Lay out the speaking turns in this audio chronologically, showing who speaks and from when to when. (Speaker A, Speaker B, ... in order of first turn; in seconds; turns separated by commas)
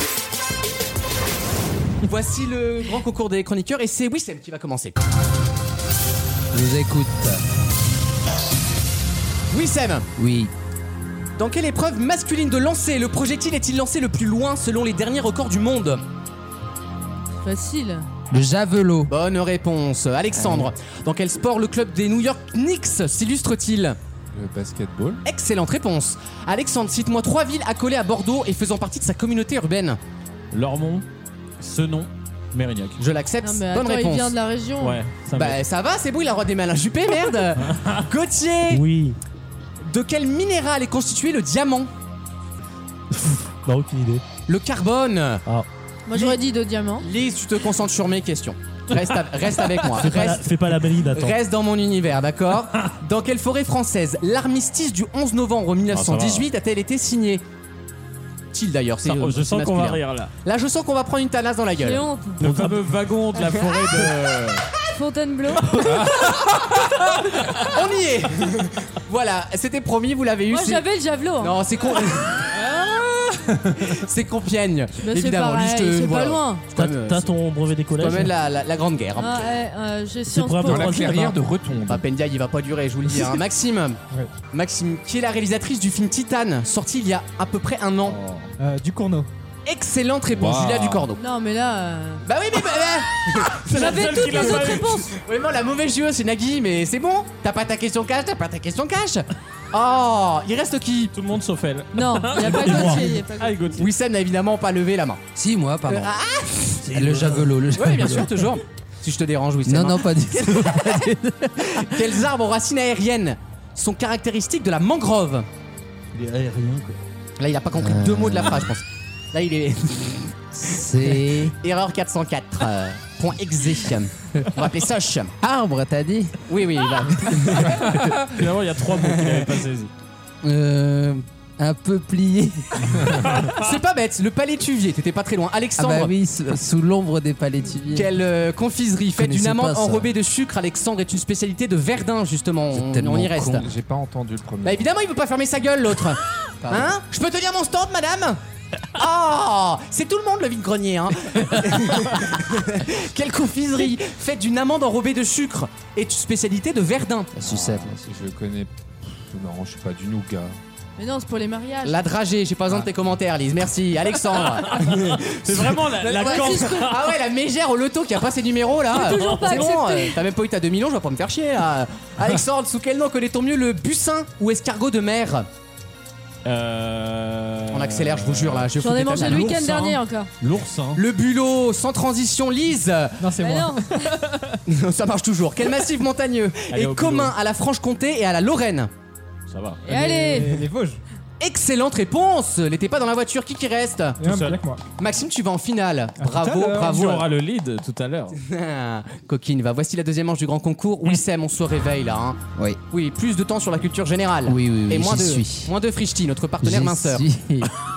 Speaker A: 2.0-5.0, Speaker B: 6.5-7.4, Speaker A: 9.5-10.1, Speaker B: 10.2-10.5, Speaker A: 11.3-16.0, Speaker C: 17.4-18.1, Speaker B: 18.3-19.1, Speaker A: 19.1-24.0, Speaker B: 20.3-20.7, Speaker D: 24.3-25.2, Speaker A: 25.2-30.0, Speaker E: 30.5-31.1, Speaker E: 31.6-33.0, Speaker A: 33.0-34.3, Speaker C: 33.4-35.0, Speaker E: 34.8-35.6, Speaker A: 35.3-38.8, Speaker F: 38.7-39.2, Speaker A: 39.8-41.9, Speaker F: 43.1-44.2, Speaker A: 44.5-45.4, Speaker C: 46.1-47.0, Speaker A: 46.1-46.4, Speaker A: 47.0-57.4, Speaker F: 49.9-51.4, Speaker E: 55.9-56.5, Speaker A: 58.5-62.0, Speaker E: 59.0-60.3, Speaker C: 61.8-62.4, Speaker E: 62.4-64.6, Speaker F: 62.4-62.8, Speaker A: 63.4-64.0, Speaker C: 64.9-66.4, Speaker D: 65.8-67.0, Speaker A: 67.6-70.8, Speaker C: 70.5-71.6, Speaker A: 71.4-77.3, Speaker C: 75.0-76.6, Speaker F: 76.7-78.3, Speaker A: 78.0-79.5, Speaker C: 79.2-81.0, Speaker F: 80.3-81.4, Speaker D: 80.6-82.0, Speaker A: 81.8-88.2, Speaker G: 88.6-89.3, Speaker A: 89.7-91.2, Speaker D: 90.3-91.0, Speaker C: 91.1-92.2, Speaker A: 92.2-101.1, Speaker E: 93.7-95.0, Speaker C: 93.7-95.1, Speaker E: 101.1-103.9, Speaker C: 101.9-103.6, Speaker F: 102.6-103.0, Speaker A: 103.8-105.2, Speaker B: 105.3-106.1, Speaker A: 105.9-107.1, Speaker B: 106.8-108.4, Speaker A: 107.7-110.7, Speaker B: 109.6-112.2, Speaker A: 111.7-115.5, Speaker B: 116.2-116.8, Speaker A: 117.4-120.3, Speaker B: 117.7-118.7, Speaker B: 120.5-121.5, Speaker A: 121.6-125.3, Speaker B: 125.4-126.4, Speaker A: 126.5-128.2, Speaker E: 128.2-129.9, Speaker A: 129.0-129.5, Speaker B: 130.4-133.2, Speaker E: 133.3-133.6, Speaker A: 133.5-136.1, Speaker B: 135.8-138.1, Speaker A: 137.9-143.7, Speaker B: 139.1-140.1, Speaker B: 142.7-143.6, Speaker D: 143.5-144.9, Speaker A: 144.6-148.4, Speaker B: 146.6-147.0, Speaker A: 148.9-157.3, Speaker B: 157.3-158.0, Speaker D: 157.4-160.6, Speaker C: 161.0-162.0, Speaker A: 161.8-175.5, Speaker E: 164.4-167.1, Speaker C: 166.1-166.9, Speaker C: 168.9-170.2, Speaker E: 176.4-181.0, Speaker A: 177.7-179.7, Speaker C: 178.8-180.3, Speaker A: 180.9-183.2, Speaker G: 183.2-184.6, Speaker C: 183.4-184.1, Speaker A: 184.7-188.9, Speaker E: 186.7-187.3, Speaker E: 189.5-189.8, Speaker C: 189.8-190.5, Speaker G: 189.8-191.0, Speaker A: 191.4-194.2, Speaker G: 194.2-194.8, Speaker E: 194.2-194.6, Speaker A: 195.0-197.3, Speaker G: 196.2-196.9, Speaker E: 196.8-198.4, Speaker A: 198.3-202.4, Speaker A: 202.9-207.2, Speaker B: 204.4-205.7, Speaker B: 206.6-207.7